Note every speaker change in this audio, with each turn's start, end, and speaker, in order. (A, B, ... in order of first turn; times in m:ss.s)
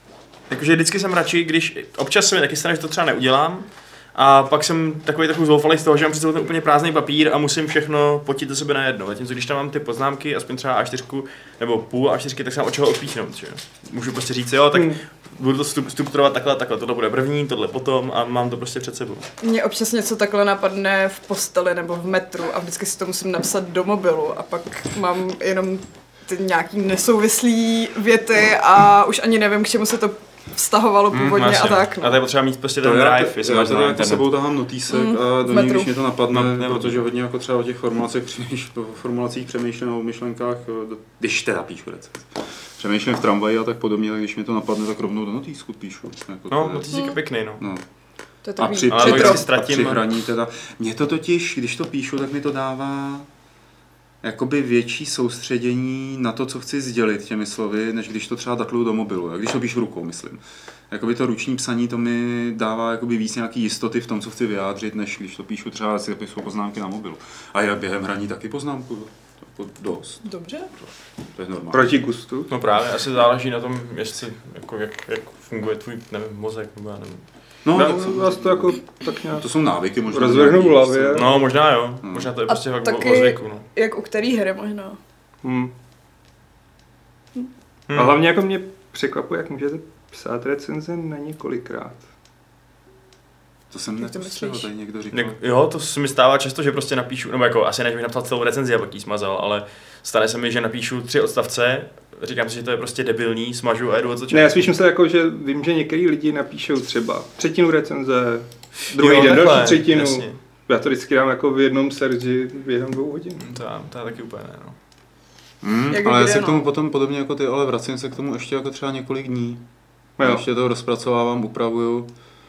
0:00.5-0:19.3 A
0:14.7-0:15.0 B
0:19.4-0:32.2 C
0:31.1-0:34.2 A
0:32.8-0:47.0 D
0:34.9-0:35.9 C
0:36.3-0:37.0 A
0:46.5-0:47.6 A
0:46.9-0:47.2 C
0:47.6-0:47.8 D
0:48.4-0:49.5 C
0:48.6-0:53.3 D
0:48.9-0:50.0 A
0:54.2-1:10.2 D
1:10.2-1:10.7 C
1:11.3-1:12.0 D
1:11.7-1:12.5 B
1:12.5-1:17.2 A
1:17.6-1:21.3 D
1:17.7-1:19.5 B
1:20.1-1:21.3 B
1:21.1-1:23.6 A
1:22.0-1:22.3 D
1:22.5-1:25.0 C
1:25.4-1:25.7 B
1:27.9-1:28.2 A
1:27.9-1:32.0 B
1:33.7-1:35.4 D
1:34.0-1:34.7 C
1:35.1-1:44.7 A
1:44.3-1:53.6 B
1:48.9-1:50.4 A
1:53.4-1:54.8 A
1:55.6-1:59.6 D
1:55.9-1:56.6 C
2:00.2-2:02.1 D